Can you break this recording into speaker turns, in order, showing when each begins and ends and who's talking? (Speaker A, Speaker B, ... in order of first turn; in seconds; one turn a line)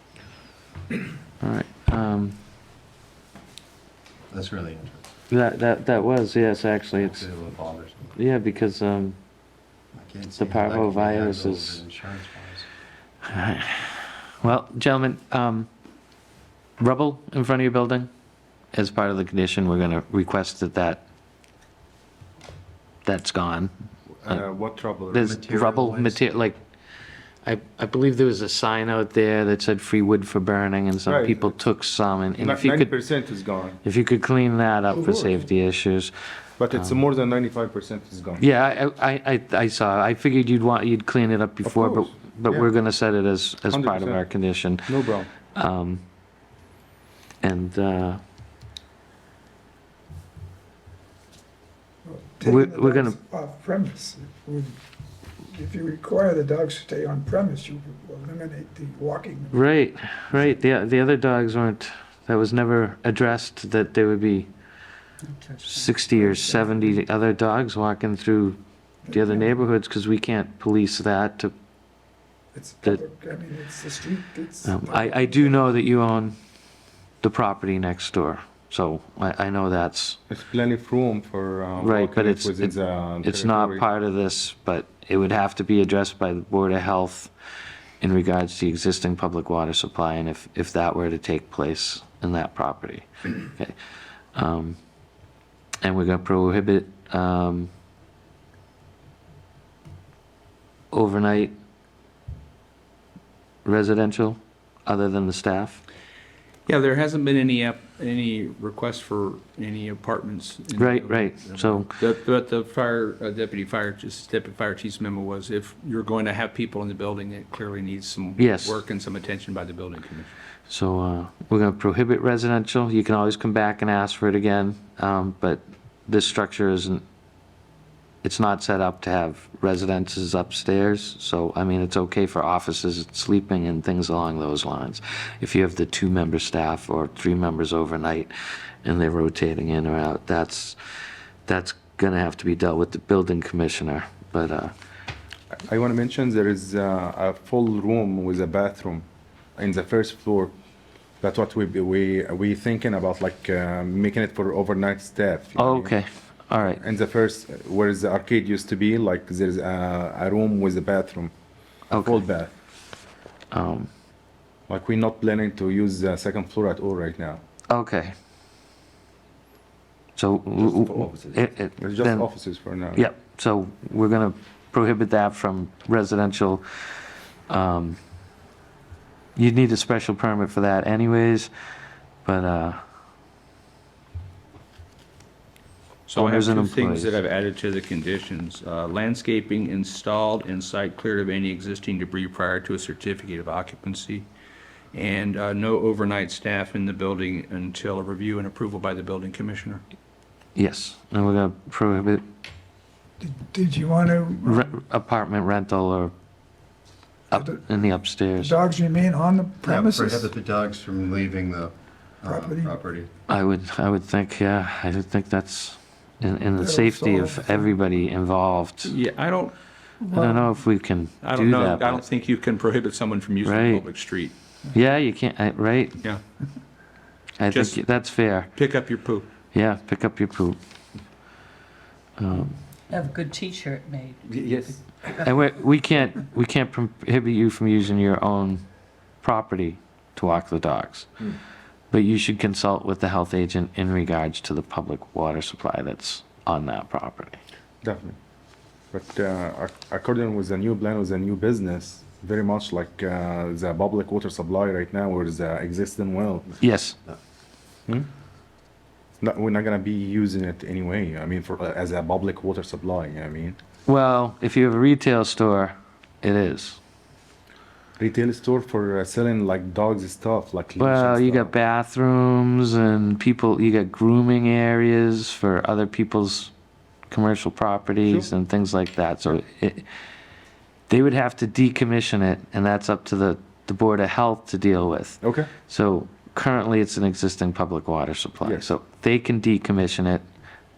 Speaker A: 1.4-2.4
Speaker B: 4.3-5.0
Speaker A: 5.3-7.2
Speaker B: 7.0-8.1
Speaker A: 8.2-9.2
Speaker B: 9.9-12.7
Speaker A: 10.4-11.8
Speaker A: 13.3-15.7
Speaker A: 16.8-18.1
Speaker A: 18.7-21.0
Speaker A: 23.0-23.7
Speaker C: 24.2-25.3
Speaker A: 25.1-26.6
Speaker B: 25.2-26.3
Speaker A: 27.4-33.0
Speaker C: 31.1-31.6
Speaker C: 32.4-33.8
Speaker A: 33.8-36.1
Speaker C: 34.9-35.4
Speaker C: 36.6-38.4
Speaker A: 36.7-37.0
Speaker A: 38.4-44.9
Speaker C: 41.6-42.7
Speaker C: 43.7-44.3
Speaker C: 44.9-45.3
Speaker A: 45.5-46.0
Speaker A: 47.4-48.2
Speaker D: 52.0-54.8
Speaker A: 52.4-53.2
Speaker D: 55.4-59.7
Speaker A: 59.5-64.5
Speaker E: 65.3-66.0
Speaker A: 65.7-71.5
Speaker D: 66.2-66.8
Speaker D: 69.1-69.5
Speaker D: 72.5-75.6
Speaker A: 74.6-76.3
Speaker A: 77.2-80.2
Speaker C: 80.3-83.8
Speaker A: 81.8-87.3
Speaker A: 88.0-93.7
Speaker A: 94.3-94.8
Speaker A: 95.8-97.7
Speaker A: 100.9-101.5
Speaker A: 103.7-105.8
Speaker F: 106.7-120.3
Speaker A: 110.8-111.9
Speaker A: 118.4-118.8
Speaker A: 120.7-127.0
Speaker A: 128.2-138.3
Speaker A: 138.8-140.8
Speaker A: 141.5-144.7
Speaker C: 145.6-150.5
Speaker C: 151.2-155.9
Speaker A: 155.6-156.8
Speaker C: 156.6-161.3
Speaker A: 161.9-162.2
Speaker C: 161.9-162.5
Speaker A: 163.5-163.9
Speaker C: 164.7-167.4
Speaker A: 167.7-168.1
Speaker A: 170.2-172.3
Speaker C: 171.8-173.1
Speaker A: 172.9-176.6
Speaker A: 177.5-178.0
Speaker A: 179.4-181.5
Speaker A: 182.2-182.8
Speaker F: 186.1-194.3
Speaker A: 186.2-187.2
Speaker F: 194.9-199.8
Speaker A: 200.6-202.2
Speaker D: 203.2-204.7
Speaker A: 204.4-206.1
Speaker A: 207.3-208.6
Speaker D: 207.3-207.6
Speaker D: 208.4-210.3
Speaker B: 209.6-213.1
Speaker D: 212.3-212.8
Speaker A: 213.3-218.9
Speaker D: 216.6-217.7
Speaker F: 218.8-219.5
Speaker A: 220.1-222.0
Speaker D: 220.2-220.4
Speaker F: 221.2-224.3
Speaker A: 223.4-223.8
Speaker A: 224.7-226.0
Speaker A: 227.4-228.5
Speaker F: 227.5-227.8
Speaker F: 228.5-229.3
Speaker A: 229.5-230.6
Speaker A: 232.2-232.6
Speaker E: 232.9-234.4
Speaker C: 234.4-234.7
Speaker A: 235.2-238.6
Speaker A: 239.2-241.1
Speaker A: 241.9-247.4
Speaker C: 247.8-248.2
Speaker C: 248.9-256.6
Speaker A: 256.6-257.0
Speaker C: 259.2-263.6
Speaker A: 263.9-266.8
Speaker C: 268.0-271.5
Speaker A: 270.8-276.5
Speaker A: 277.1-279.9
Speaker A: 280.9-290.2
Speaker C: 285.2-285.5
Speaker C: 288.4-288.7